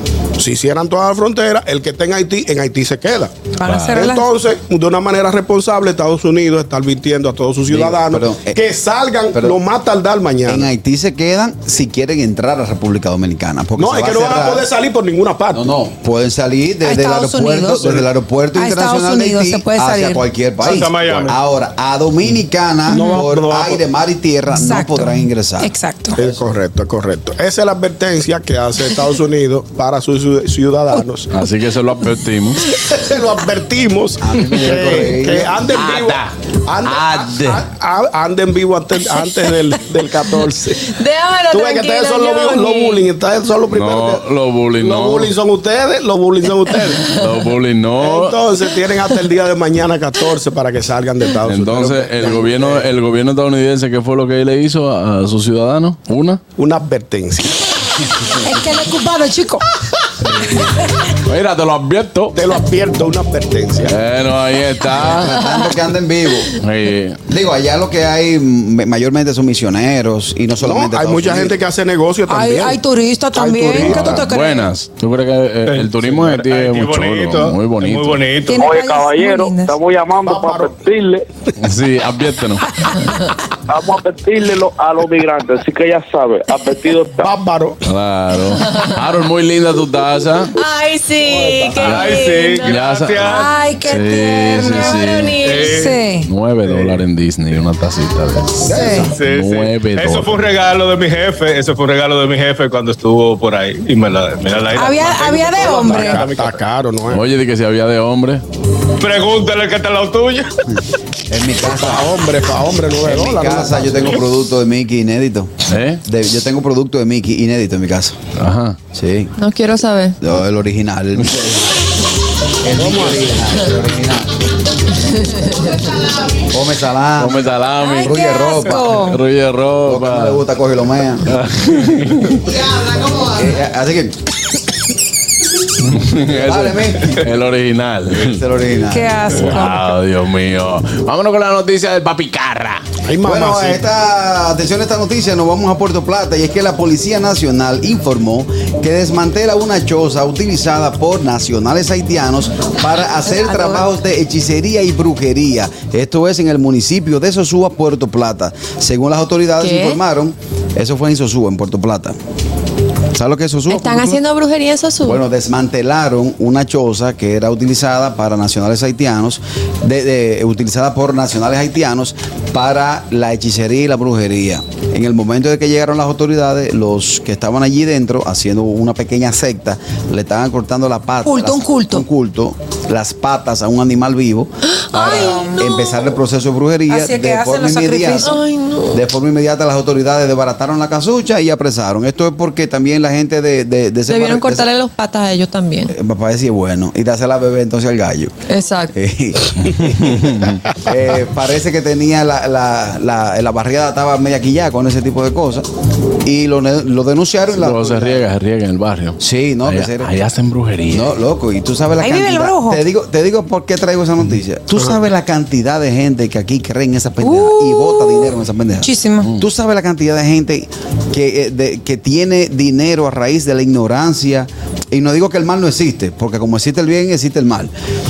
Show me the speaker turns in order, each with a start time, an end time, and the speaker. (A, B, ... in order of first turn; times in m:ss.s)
0:00.4-0:03.4 A
0:03.6-0:04.3 B
0:03.7-0:04.1 C
0:03.9-0:10.7 A
0:07.7-0:08.6 D
0:09.3-0:09.6 D
0:10.4-0:14.7 D
0:13.8-0:15.7 A
0:15.5-0:26.4 D
0:16.8-0:17.9 B
0:18.6-0:20.2 B
0:20.6-0:21.4 E
0:22.9-0:23.8 A
0:24.5-0:26.2 B
0:26.2-0:31.3 A
0:31.3-0:32.6 C
0:32.7-0:40.9 A
0:34.2-0:35.6 D
0:35.7-0:36.3 C
0:36.8-0:37.6 C
0:40.8-0:43.1 F
0:41.5-0:47.2 A
0:43.7-0:45.3 C
0:47.1-0:48.4 C
0:48.0-0:52.8 A
0:51.4-0:56.4 C
0:56.6-0:57.6 A
0:58.4-0:59.6 B
1:01.2-1:02.4 C
1:02.4-1:04.0 A
1:03.9-1:05.3 C
1:05.0-1:06.6 D
1:06.6-1:07.2 C
1:07.3-1:11.6 D
1:10.6-1:12.8 A
1:12.3-1:14.7 B
1:13.3-1:14.2 A
1:13.8-1:18.2 C
1:15.7-1:18.7 E
1:18.5-1:19.7 B
1:18.6-1:21.2 G
1:20.2-1:20.7 A
1:21.6-1:22.7 C
1:23.7-1:27.3 G
1:27.2-1:27.8 A
1:27.8-1:30.5 C
1:30.6-1:32.8 F
1:31.8-1:33.5 E
1:31.8-1:35.4 C
1:33.2-1:35.0 B
1:34.6-1:35.7 F
1:35.4-1:36.0 E
1:35.7-1:36.3 B
1:36.3-1:40.5 C
1:36.7-1:37.0 E
1:38.7-1:39.2 B
1:38.7-1:39.1 A
1:39.0-1:46.6 E
1:44.7-1:46.3 B
1:45.6-1:47.3 A
1:47.1-1:48.4 C
1:49.0-1:50.5 E
1:51.3-1:52.1 D
1:51.7-1:54.2 A
1:53.0-1:58.2 D
1:55.7-1:56.0 C
1:58.4-1:58.8 C
1:58.9-1:59.3 D
1:59.4-2:00.2 F
2:00.2-2:01.8 D
2:02.6-2:04.3 D
2:02.8-2:03.4 A
2:05.2-2:05.7 F
2:06.3-2:09.0 D
2:07.2-2:08.1 C
2:07.8-2:09.2 B
2:08.9-2:10.4 C
2:09.8-2:11.3 D
2:11.3-2:12.4 C
2:13.1-2:14.2 D
2:15.8-2:18.4 C
2:16.3-2:17.2 D
2:18.1-2:19.6 D
2:18.9-2:19.9 B
2:19.4-2:22.8 C
2:23.1-2:23.8 A
2:23.2-2:42.2 D
2:33.3-2:33.8 B
2:39.6-2:40.0 F
2:43.1-2:44.2 D
2:43.7-2:45.2 F
2:45.0-3:08.4 D
3:01.2-3:02.0 B
3:04.7-3:06.0 F
3:04.9-3:05.7 B
3:06.9-3:08.4 B
3:08.2-3:09.0 F
3:08.9-3:14.7 D
3:14.1-3:15.9 F
3:15.9-3:18.4 D
3:18.5-3:18.9 F
3:18.9-3:25.7 D
3:19.7-3:20.6 C
3:26.2-3:28.2 D
3:27.5-3:31.1 C
3:29.2-3:30.1 D
3:30.9-3:47.7 D
3:32.0-3:32.8 B
3:37.2-3:39.3 B